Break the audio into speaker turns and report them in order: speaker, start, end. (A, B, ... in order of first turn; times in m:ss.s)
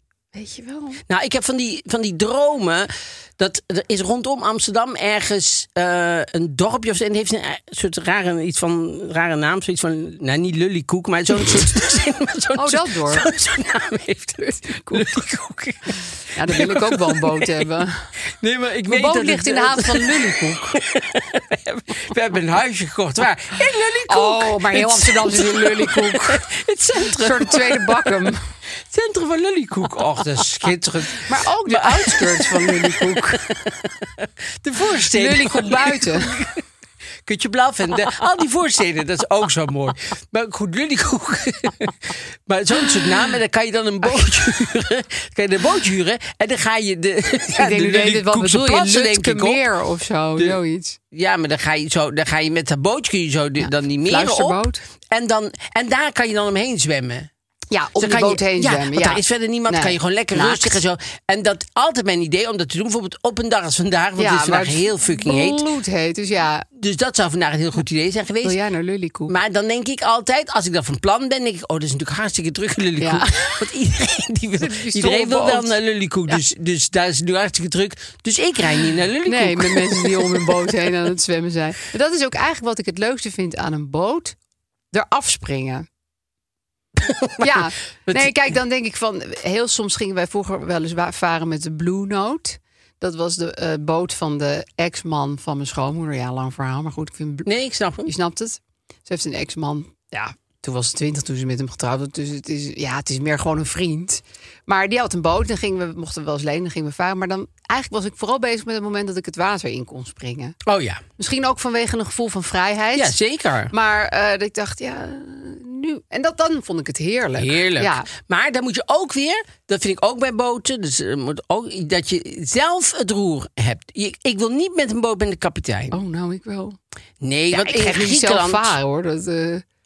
0:00.3-0:01.0 A
0:01.1-0:17.6 B
0:12.6-0:13.3 A
0:14.4-0:15.2 A
0:16.3-0:18.1 A
0:18.4-0:28.2 B
0:18.9-0:20.8 A
0:24.1-0:28.4 A
0:28.9-0:36.6 B
0:31.2-0:33.4 A
0:35.0-0:36.3 A
0:37.2-0:49.6 B
0:47.6-0:51.0 A
0:51.1-0:57.3 B
0:53.6-0:54.8 A
0:57.7-1:00.8 A
0:58.0-1:05.6 B
1:04.2-1:06.7 A
1:06.8-1:08.6 B
1:08.4-1:09.3 A
1:09.3-1:20.7 B
1:13.0-1:13.6 A
1:14.6-1:15.8 A
1:19.2-1:24.4 A
1:24.9-1:25.9 A
1:27.0-1:28.3 B
1:27.4-1:37.5 A
1:37.5-1:38.1 B
1:38.1-1:50.6 A
1:50.6-1:51.0 B
1:51.2-1:53.2 A
1:53.0-1:53.7 B
1:53.7-1:58.1 A
1:57.4-2:06.0 B
2:05.9-2:06.8 A
2:07.2-2:08.8 B
2:07.5-2:09.6 A